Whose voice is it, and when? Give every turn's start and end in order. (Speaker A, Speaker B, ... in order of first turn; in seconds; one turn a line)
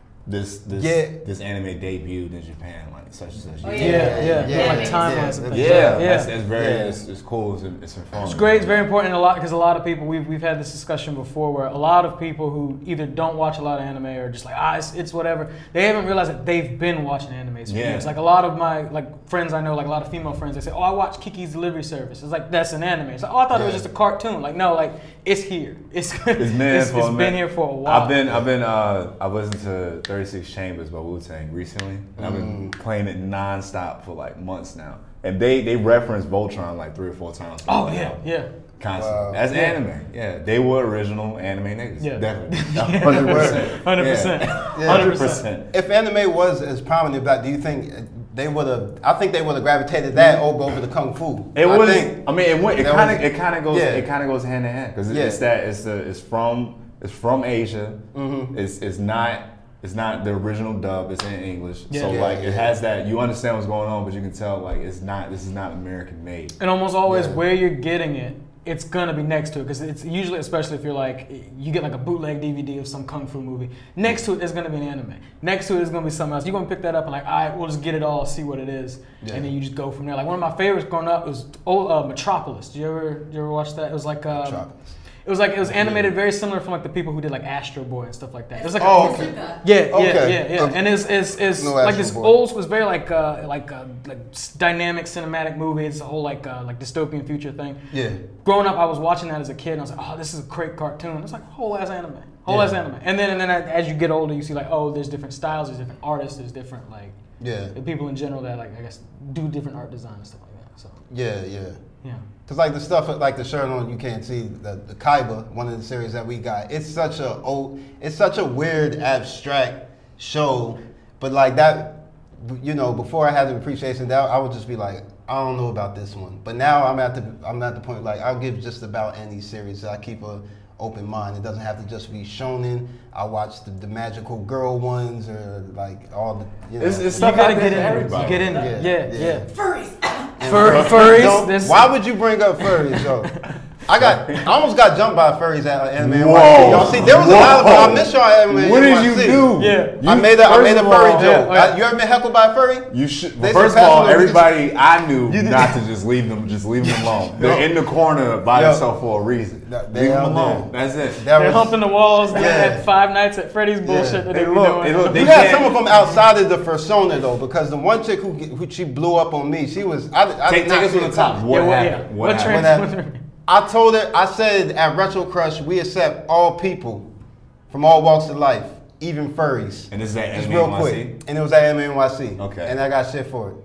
Speaker A: 0.2-4.5
Speaker B: 0.7-1.2
Speaker C: 3.6-5.3
Speaker B: 3.7-7.0
Speaker D: 3.8-6.3
Speaker A: 5.5-8.8
Speaker D: 8.2-28.2
Speaker A: 17.7-18.1
Speaker B: 23.5-23.8
Speaker A: 26.4-38.2
Speaker B: 32.2-32.7
Speaker D: 37.7-38.5
Speaker A: 38.8-45.6
Speaker B: 39.0-39.4
Speaker D: 42.0-45.4
Speaker B: 43.0-43.6
Speaker B: 44.7-45.2
Speaker B: 45.7-52.2
Speaker A: 51.5-58.0
Speaker B: 52.8-54.1
Speaker B: 55.1-55.4
Speaker B: 58.1-58.5
Speaker A: 58.5-66.5
Speaker D: 61.9-62.2
Speaker B: 62.1-62.7
Speaker D: 66.6-84.6
Speaker B: 67.0-67.4
Speaker B: 79.2-79.5
Speaker B: 84.3-84.9
Speaker D: 85.2-97.8
Speaker B: 85.7-86.1
Speaker C: 88.5-89.6
Speaker B: 88.8-89.4
Speaker B: 89.9-90.9
Speaker B: 91.6-92.3
Speaker B: 97.9-98.2
Speaker D: 98.4-107.2
Speaker B: 102.5-102.7
Speaker B: 107.4-107.7
Speaker D: 107.7-111.0
Speaker B: 111.1-111.8
Speaker B: 112.5-139.4
Speaker A: 136.8-138.6
Speaker D: 137.1-139.4
Speaker C: 139.5-140.3
Speaker B: 140.4-154.6
Speaker D: 140.4-141.9
Speaker D: 142.7-143.0
Speaker A: 144.0-144.5
Speaker A: 146.0-151.5
Speaker D: 149.6-150.0
Speaker D: 151.1-151.7
Speaker A: 152.9-161.2
Speaker B: 155.3-155.8
Speaker B: 157.3-157.7
Speaker B: 158.5-158.8
Speaker B: 159.7-161.8
Speaker D: 161.3-166.2
Speaker B: 162.3-162.8
Speaker B: 163.8-164.2
Speaker A: 164.3-165.8
Speaker B: 165.1-171.4
Speaker A: 170.4-172.8
Speaker D: 171.5-173.2
Speaker B: 172.4-172.9
Speaker B: 173.4-177.0
Speaker B: 177.7-183.6
Speaker A: 179.9-181.1
Speaker A: 182.4-182.8